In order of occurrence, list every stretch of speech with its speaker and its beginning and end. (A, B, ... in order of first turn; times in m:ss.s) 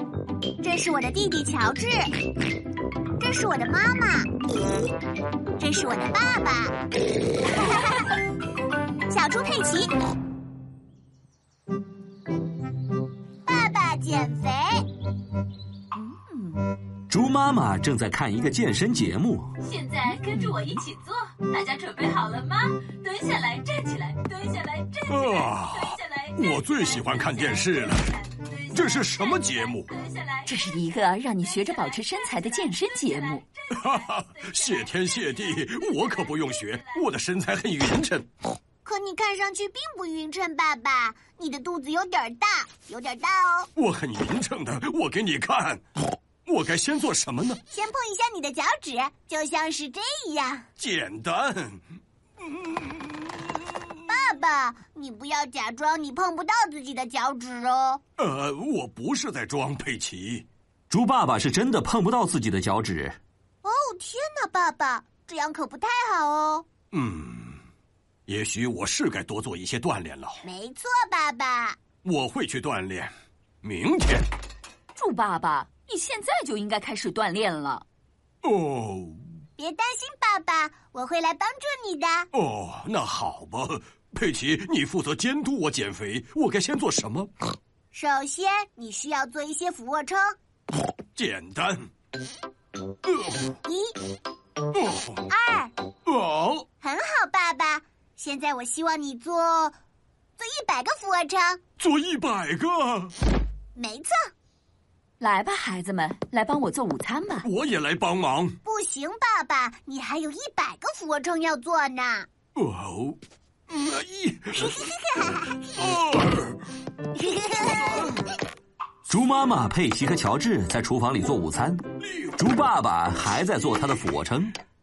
0:00.6-0:02.1 A
0:03.2-0:04.3 A
0:05.6-0:06.7 A
0:07.6-0:08.0 A
0:09.1-0:09.9 A
0:13.5-0:14.8 A
0:16.2-0:16.6 B
0:17.1-0:19.5 C
0:19.6-0:37.0 D
0:25.1-0:28.1 E
0:28.7-0:29.9 E
0:30.5-0:33.4 B
0:33.7-0:38.3 E
0:38.8-0:43.7 A
0:43.8-0:45.8 E
0:46.5-0:47.6 E
0:47.7-0:50.7 A
0:50.8-0:51.8 E
0:54.1-0:58.0 A
0:58.2-1:00.5 E
1:00.9-1:03.2 C
1:03.6-1:06.7 A
1:06.9-1:07.6 E
1:08.3-1:10.4 E
1:10.4-1:11.8 A
1:12.0-1:13.1 E
1:13.6-1:14.3 E
1:15.0-1:17.8 B
1:18.4-1:19.2 E
1:19.6-1:22.3 A
1:22.3-1:27.3 E
1:27.9-1:30.3 A
1:31.2-1:31.9 E
1:33.6-1:33.9 A
1:34.8-1:35.2 E
1:35.3-1:35.7 A
1:36.1-1:36.6 E
1:36.8-1:39.8 A
1:40.4-1:41.6 A
1:41.8-1:43.1 E
1:43.8-1:44.2 A
1:45.2-1:47.5 B
1:47.4-1:48.6 E
1:48.6-1:52.3 A
1:52.6-1:53.2 E
1:53.7-1:54.8 E
1:54.5-1:55.6 A
1:55.7-1:56.6 E
1:57.1-1:58.1 A
1:59.1-2:01.8 C
2:02.1-2:02.4 E
2:02.4-2:04.6 C